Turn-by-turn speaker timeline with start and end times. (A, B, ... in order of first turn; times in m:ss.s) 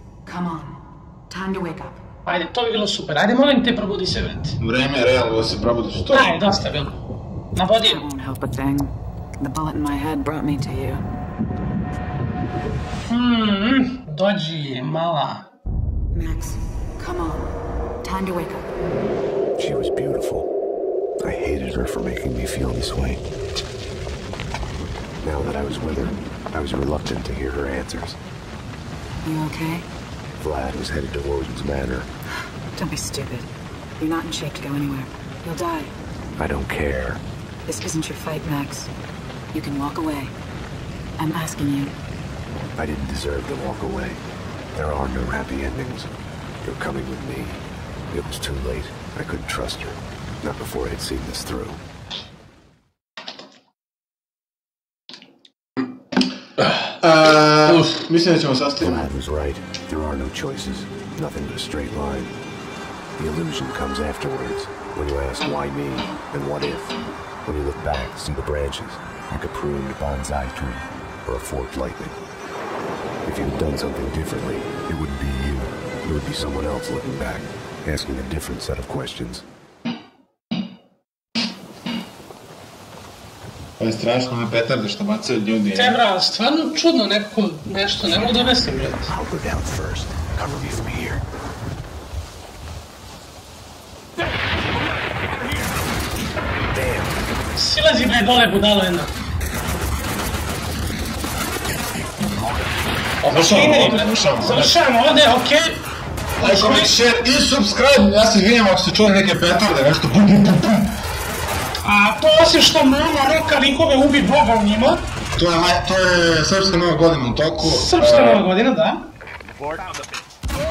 0:00.2-0:02.0 A
0:02.2-0:04.6 B
0:04.6-0:06.4 C
0:06.1-0:07.0 B
0:07.5-0:08.0 B
0:07.8-0:11.0 A
0:13.1-0:15.4 B
0:16.1-0:18.6 A
0:19.6-0:20.5 D
0:21.2-0:23.2 D
0:25.2-0:28.2 D
0:29.2-0:29.8 A
0:30.4-0:32.1 D
0:32.8-0:33.5 A
0:34.0-0:35.9 A
0:36.4-0:37.2 D
0:37.7-0:38.9 A
0:39.5-0:40.3 A
0:41.2-0:41.9 A
0:42.8-0:44.2 D
0:44.7-0:46.1 D
0:46.6-0:51.8 D
0:57.0-0:59.1 C
0:57.7-0:58.0 B
0:58.8-1:02.3 D
1:03.2-1:12.2 D
1:13.2-1:19.4 D
1:23.8-1:26.0 C
1:25.7-1:29.1 B
1:29.1-1:31.2 D
1:36.7-1:37.2 D
1:37.6-1:39.1 B
1:43.2-1:45.8 B
1:43.3-1:44.7 C
1:46.4-1:47.0 B
1:46.4-1:50.9 C
1:51.8-1:55.0 B
1:55.4-1:58.4 C
1:57.6-1:59.1 B
1:59.5-1:59.9 D